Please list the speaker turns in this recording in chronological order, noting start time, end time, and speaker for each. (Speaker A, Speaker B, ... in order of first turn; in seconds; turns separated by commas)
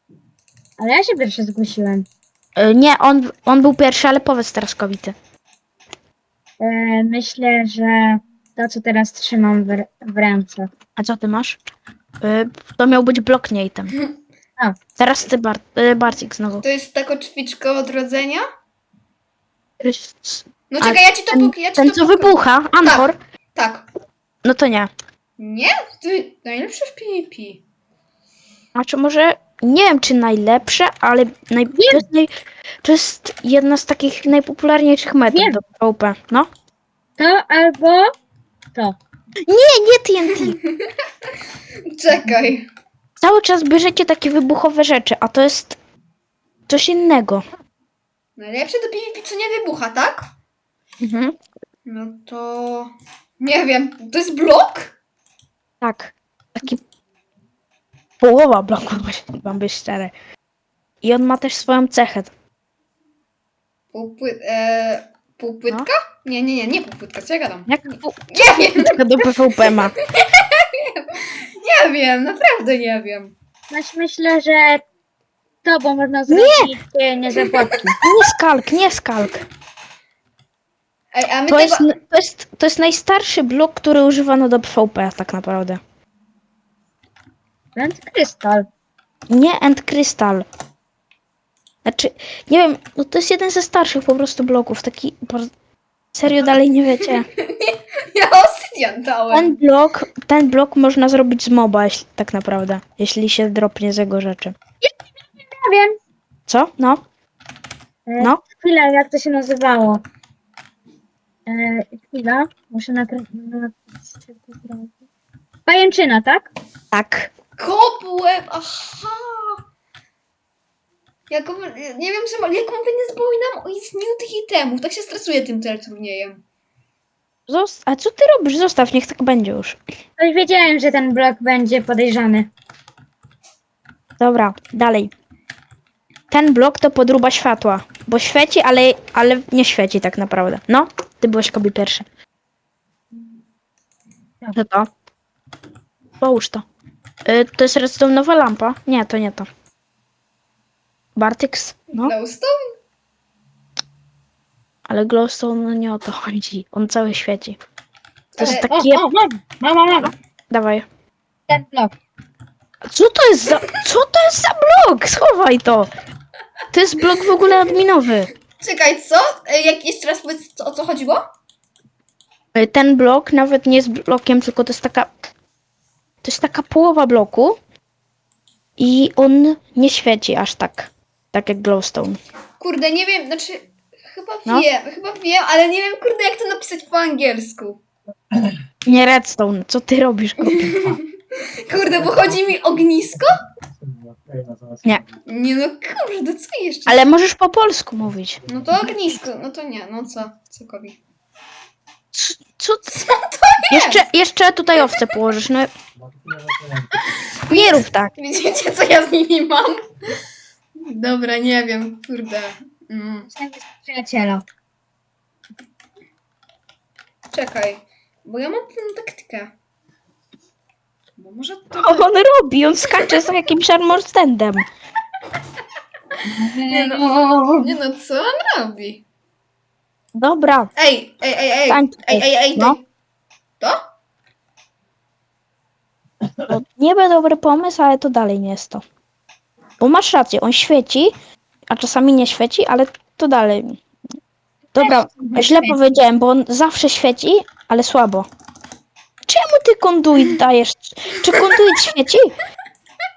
Speaker A: 0.8-2.1, Speaker B: 2.6-5.2, Speaker A: 6.6-10.7, Speaker B: 11.0-11.6, Speaker B: 12.2-13.9, Speaker B: 15.0-16.6, Speaker C: 16.6-18.4, Speaker B: 19.8-23.2, Speaker C: 20.7-23.9, Speaker B: 24.4-24.9, Speaker C: 25.4-27.6, Speaker B: 28.8-32.3, Speaker A: 31.7-32.0, Speaker B: 32.8-36.5, Speaker A: 35.3-35.6, Speaker A: 37.2-38.1, Speaker B: 39.5-40.6, Speaker C: 40.5-40.9, Speaker C: 41.9-42.7, Speaker B: 43.2-45.8, Speaker B: 46.7-47.5, Speaker C: 48.4-50.3, Speaker B: 51.0-51.4, Speaker C: 51.9-55.0, Speaker B: 55.8-56.8, Speaker B: 58.2-60.1, Speaker B: 61.0-62.3, Speaker C: 63.9-67.7, Speaker B: 67.7-70.0, Speaker C: 68.3-73.3, Speaker A: 73.7-74.8, Speaker A: 75.6-78.0, Speaker B: 76.3-76.7, Speaker B: 78.0-79.5, Speaker C: 81.1-81.9, Speaker B: 81.5-85.8, Speaker A: 87.8-88.7, Speaker B: 89.3-90.5, Speaker B: 91.8-95.5, Speaker B: 96.1-97.3, Speaker C: 97.0-99.6, Speaker B: 99.3-104.5, Speaker A: 104.8-106.0, Speaker B: 106.5-107.0, Speaker A: 108.1-110.0, Speaker A: 111.5-114.9, Speaker A: 115.7-116.5, Speaker B: 116.9-117.3, Speaker C: 117.6-119.6, Speaker C: 121.3-126.4, Speaker B: 127.5-129.8, Speaker A: 130.2-132.5, Speaker B: 134.2-135.1, Speaker B: 136.3-142.0, Speaker B: 144.6-144.9, Speaker B: 146.2-146.6, Speaker B: 147.2-149.5, Speaker B: 151.2-152.1, Speaker C: 152.0-152.6, Speaker B: 154.9-157.6, Speaker C: 158.3-158.7, Speaker B: 158.4-159.0, Speaker A: 158.4-160.1, Speaker B: 160.5-160.8, Speaker A: 161.5-161.9, Speaker B: 162.9-165.9, Speaker B: 166.7-168.3, Speaker C: 168.6-171.2, Speaker B: 172.6-175.1, Speaker B: 176.2-177.6, Speaker B: 178.8-182.2, Speaker C: 182.6-187.8, Speaker B: 188.9-190.9, Speaker C: 190.5-193.3, Speaker C: 195.3-197.1, Speaker B: 196.9-198.4, Speaker C: 198.5-201.0, Speaker B: 202.1-202.9, Speaker C: 202.9-204.1, Speaker B: 203.7-205.7, Speaker C: 207.5-209.8, Speaker B: 207.5-208.1, Speaker C: 210.8-213.3, Speaker A: 213.2-214.4, Speaker C: 217.3-219.5, Speaker C: 221.2-222.1, Speaker B: 221.8-224.7, Speaker C: 223.0-223.3, Speaker A: 226.2-227.7, Speaker C: 226.7-229.0, Speaker B: 230.2-230.7, Speaker C: 230.8-232.8, Speaker B: 231.7-232.8, Speaker B: 236.4-238.8, Speaker B: 239.8-241.1, Speaker B: 241.7-243.8, Speaker A: 244.7-245.8, Speaker B: 244.8-248.3, Speaker B: 249.3-252.3